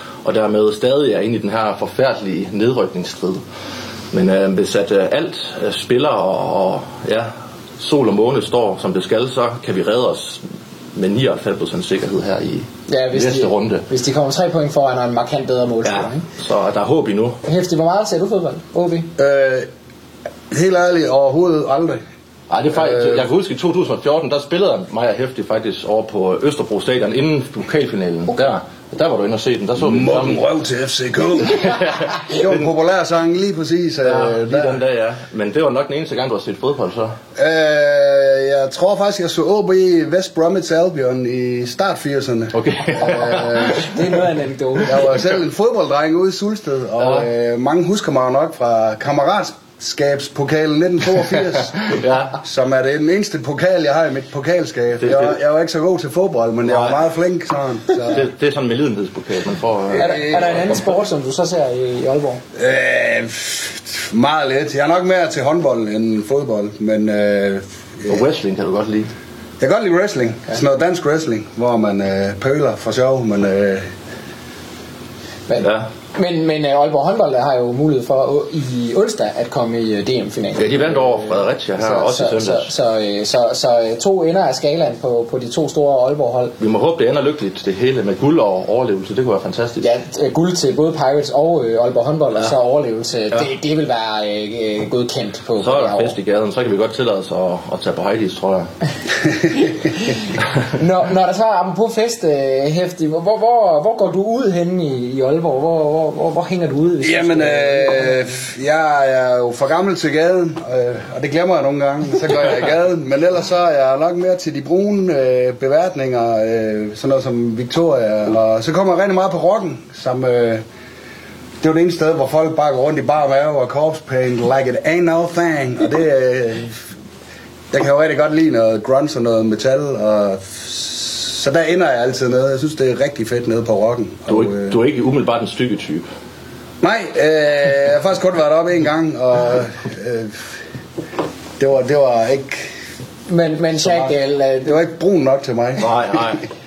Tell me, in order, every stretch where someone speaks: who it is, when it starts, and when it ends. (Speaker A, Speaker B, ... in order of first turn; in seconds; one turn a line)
Speaker A: 0.2-3.4
Speaker A: 4.1-10.4
Speaker A: 10.9-13.8
Speaker B: 12.9-16.2
Speaker A: 15.8-17.4
Speaker B: 17.4-19.1
Speaker C: 19.2-19.7
Speaker C: 20.5-22.0
Speaker A: 22.5-30.4
Speaker C: 22.7-23.2
Speaker C: 29.8-34.8
Speaker A: 31.5-32.7
Speaker A: 34.0-37.1
Speaker C: 37.4-43.8
Speaker A: 42.5-44.1
Speaker B: 43.2-45.0
Speaker A: 44.8-45.0
Speaker C: 44.9-51.8
Speaker A: 47.0-47.3
Speaker A: 51.8-52.4
Speaker C: 52.4-58.3
Speaker A: 55.0-55.3
Speaker A: 56.6-57.0
Speaker A: 58.1-60.9
Speaker C: 59.9-60.5
Speaker B: 59.9-62.4
Speaker C: 62.6-68.2
Speaker A: 68.1-69.1
Speaker C: 69.6-73.9
Speaker B: 75.5-86.5
Speaker A: 75.6-75.8
Speaker A: 80.6-82.7
Speaker A: 86.6-89.9
Speaker B: 89.8-96.1
Speaker A: 95.6-98.7
Speaker B: 99.6-108.2
Speaker C: 107.0-120.6
Speaker C: 121.6-126.9
Speaker C: 127.7-134.8
Speaker A: 134.3-136.1
Speaker C: 136.8-140.6
Speaker C: 141.6-142.7
Speaker B: 143.3-144.8
Speaker C: 143.8-146.3
Speaker A: 145.8-146.4